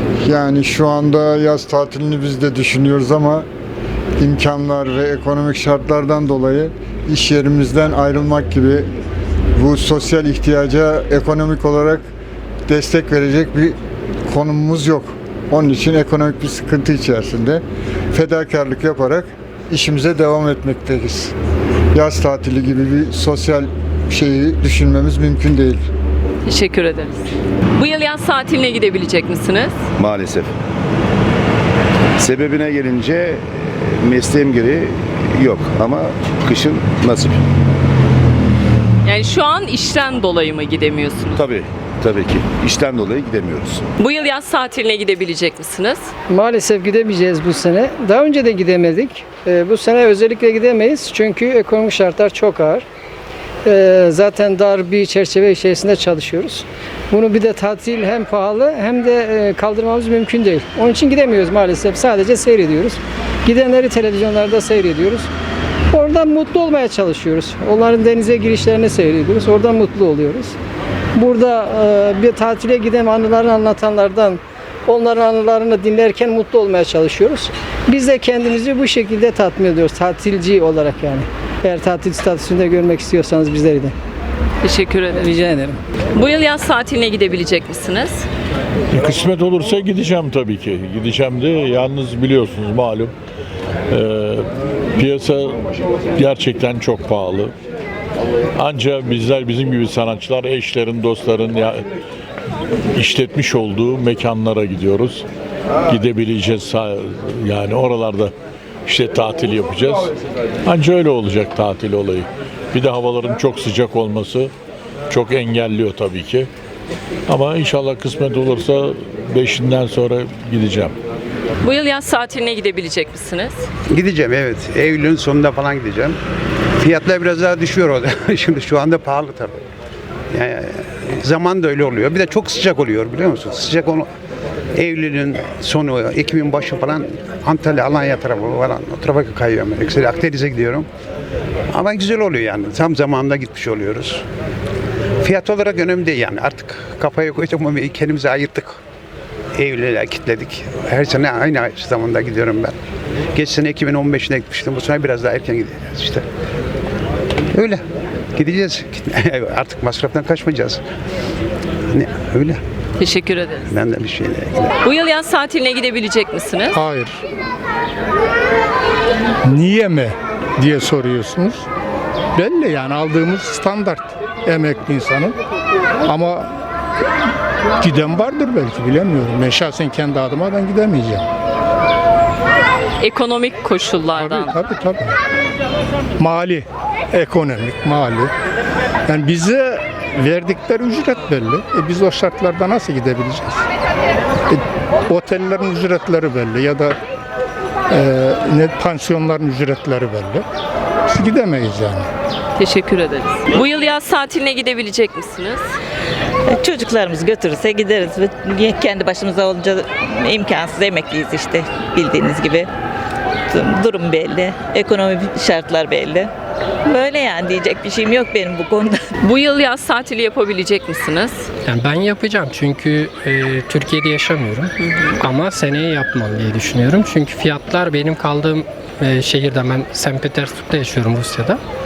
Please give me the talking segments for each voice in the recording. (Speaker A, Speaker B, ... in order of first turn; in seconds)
Speaker A: 0.2-3.5, 4.2-8.9, 9.6-12.1, 12.7-13.8, 14.3-21.3, 21.9-25.9
Speaker B: 26.4-27.2, 27.8-29.7, 39.0-41.4, 44.0-46.0, 84.6-85.3, 86.1-88.2, 121.6-123.7, 163.0-163.7, 164.8-166.8, 183.0-184.5, 202.6-205.7, 219.2-221.5, 224.8-225.2
Speaker C: 30.0-30.5, 32.2-37.4, 41.4-43.9
Speaker D: 46.3-52.8, 53.6-65.3, 65.9-70.5, 71.2-83.9, 85.2-85.8
Speaker E: 88.9-93.1, 93.9-95.6, 96.2-97.5, 98.6-101.8, 102.9-105.2, 105.9-108.3, 108.8-110.1, 110.7-114.5, 115.1-116.5, 117.3-121.0
Speaker F: 123.9-126.2, 126.8-129.6, 130.3-134.1, 134.8-140.9, 141.7-144.2, 145.2-148.8, 149.6-152.7, 153.3-156.2, 157.5-157.8, 158.3-160.8, 161.9-162.6, 163.7-164.7
Speaker G: 166.7-167.2, 169.4-171.7, 172.3-175.4, 176.1-176.5, 177.8-181.2, 184.2-185.2, 186.2-188.3, 189.1-193.6, 194.5-196.9, 197.9-200.4, 201.1-202.1
Speaker H: 206.5-212.7, 213.5-216.3, 216.8-219.1
Speaker I: 221.6-231.6